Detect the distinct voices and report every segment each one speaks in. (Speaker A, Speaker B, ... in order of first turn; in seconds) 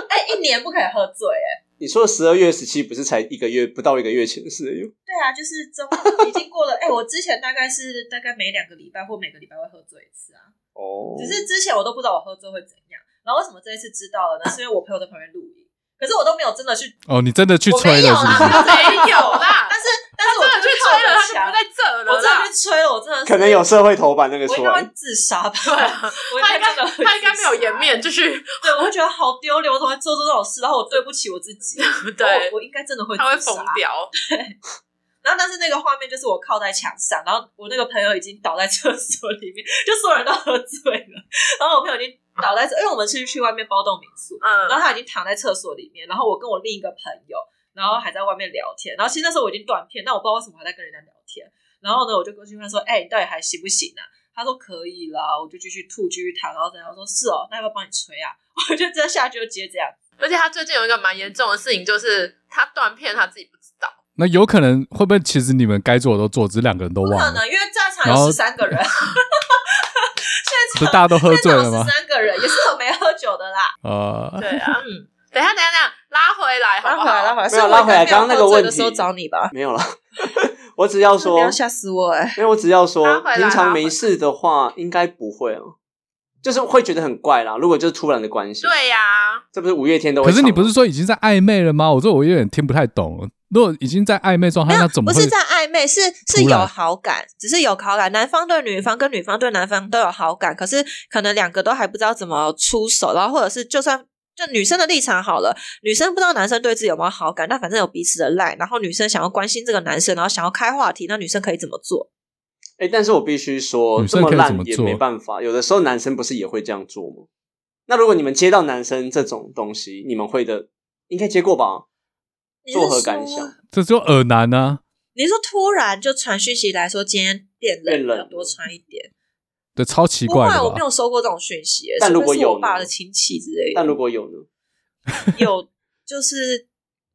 Speaker A: 0.1-1.6, 5.1-10.5, 11.2-17.0, 17.7-23.6, 24.5-27.9, 28.6-34.6, 35.2-60.0, 67.0-73.7, 74.8-75.1, 76.8-79.5, 81.2-82.4, 94.7-112.1, 122.7-123.5, 125.2-129.1, 130.3-134.0, 135.3-136.7
Speaker B: 1.8-4.9, 10.8-11.4, 23.2-24.9, 77.5-81.6, 82.4-85.8, 86.4-88.8, 89.5-90.7, 112.8-117.3, 117.9-121.8, 122.7-123.5, 127.9-128.5, 132.0-132.9, 133.7-134.5
Speaker C: 17.1-18.7, 64.2-67.4, 68.0-68.4, 70.8-71.9, 73.8-74.5, 90.2-95.3, 96.3-96.7, 114.0-115.0, 123.7-124.8, 129.8-130.8
Speaker D: 18.4-22.5, 25.7-28.7, 31.8-32.5, 33.2-34.1, 44.4-44.8, 60.2-63.9, 74.4-77.4, 83.0-84.0, 88.6-89.4